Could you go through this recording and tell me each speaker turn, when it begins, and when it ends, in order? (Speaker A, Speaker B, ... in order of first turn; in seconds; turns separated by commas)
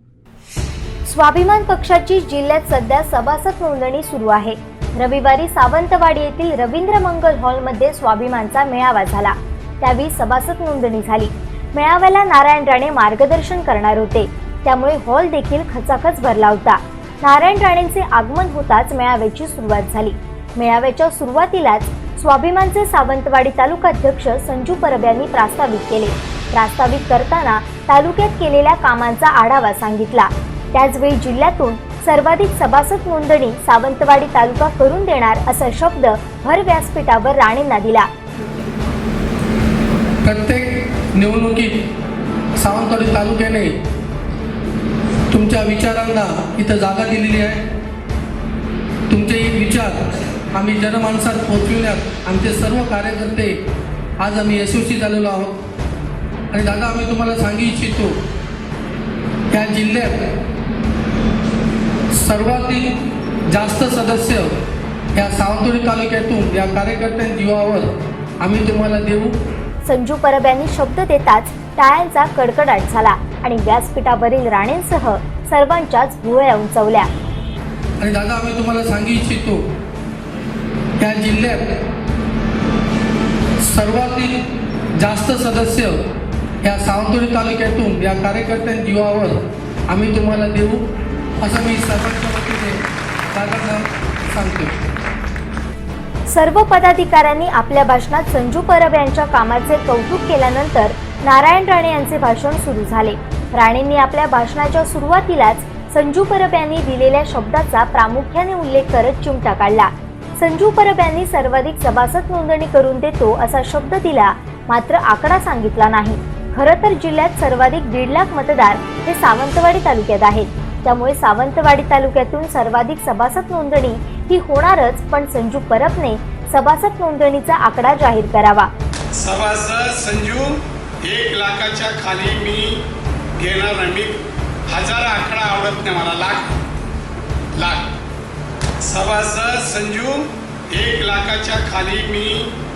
Speaker A: 1.1-38.1, Speaker B: 40.2-41.8, Speaker B: 42.6-43.7, Speaker B: 45.3-47.7, Speaker B: 49.1-53.6, Speaker B: 54.2-55.6, Speaker B: 56.5-58.2, Speaker B: 59.5-60.3, Speaker B: 62.1-62.9, Speaker B: 63.5-64.5, Speaker B: 65.1-69.3, Speaker A: 69.8-77.1, Speaker B: 78.0-79.7, Speaker B: 81.0-81.8, Speaker B: 83.6-84.4, Speaker B: 85.0-86.1, Speaker B: 86.6-89.4, Speaker B: 89.9-90.8, Speaker B: 91.4-92.8, Speaker B: 93.3-94.8, Speaker A: 96.3-128.7, Speaker C: 129.1-132.8, Speaker C: 133.4-136.6, Speaker C: 137.5-137.9, Speaker C: 138.8-142.5